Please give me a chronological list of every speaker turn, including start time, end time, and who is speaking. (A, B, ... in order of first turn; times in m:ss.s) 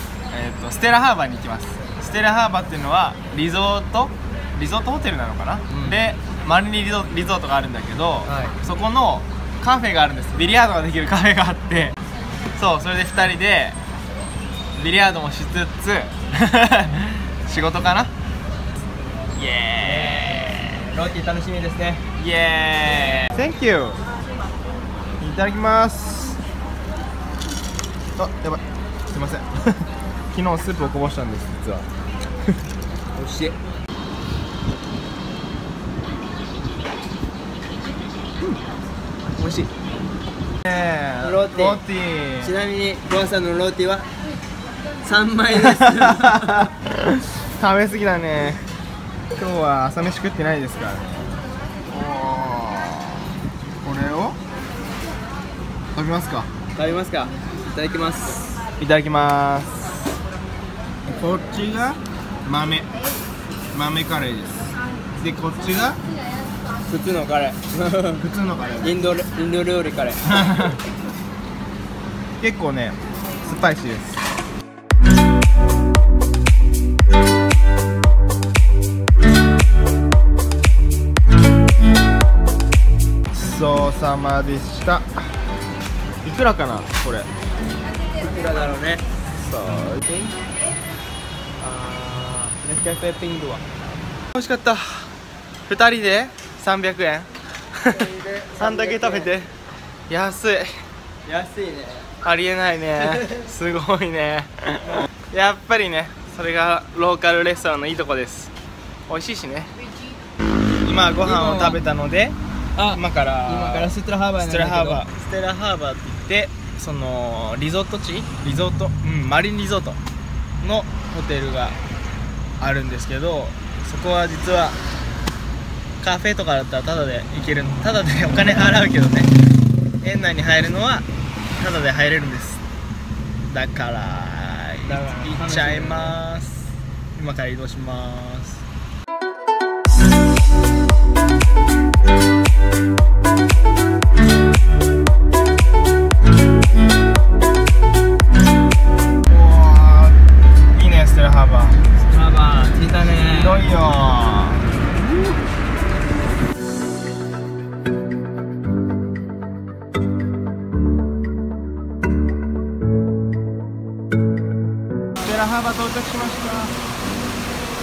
0:00.3-0:11.9 A
0:05.7-0:06.0 B
0:08.2-0:08.6 B
0:12.5-0:13.8 A
0:14.8-0:18.1 A
0:19.3-0:20.8 A
0:19.8-0:22.0 B
0:22.2-0:24.0 A
0:25.2-0:26.4 A
0:28.2-0:31.9 A
0:33.2-0:33.6 B
0:39.4-0:39.7 A
0:40.6-0:42.6 A
0:41.2-0:41.8 B
0:42.4-0:44.1 B
0:45.0-0:46.7 B
0:45.5-0:48.7 A
0:49.4-0:51.0 A
0:51.9-0:53.2 A
0:53.8-0:54.4 A
0:55.9-0:56.5 A
0:56.7-0:58.6 B
0:58.8-1:00.2 A
1:01.1-1:02.9 A
1:03.7-1:06.0 A
1:06.8-1:08.2 B
1:08.2-1:09.0 A
1:08.8-1:10.3 B
1:10.2-1:10.8 A
1:12.4-1:14.2 A
1:23.3-1:25.3 A
1:26.2-1:27.3 A
1:28.2-1:29.0 B
1:29.4-1:30.2 A
1:30.0-1:30.3 B
1:31.6-1:33.7 B
1:34.3-1:35.1 A
1:35.7-1:38.0 A
1:37.9-1:39.3 B
1:38.6-1:39.5 A
1:40.1-1:40.8 A
1:41.2-1:42.1 B
1:42.2-1:48.5 A
1:43.0-1:43.5 B
1:49.1-1:49.7 A
1:50.8-1:52.4 A
1:51.2-1:51.8 B
1:52.8-1:55.0 B
1:52.9-2:00.0 A
2:00.6-2:01.8 A
2:02.6-2:04.8 A
2:06.0-2:09.3 A
2:10.0-2:12.6 A
2:13.5-2:18.6 A
2:14.8-2:16.2 B
2:29.3-2:30.2 A
2:30.7-2:31.9 A
2:32.0-2:33.6 B
2:33.2-2:34.7 A
2:45.2-2:46.7 A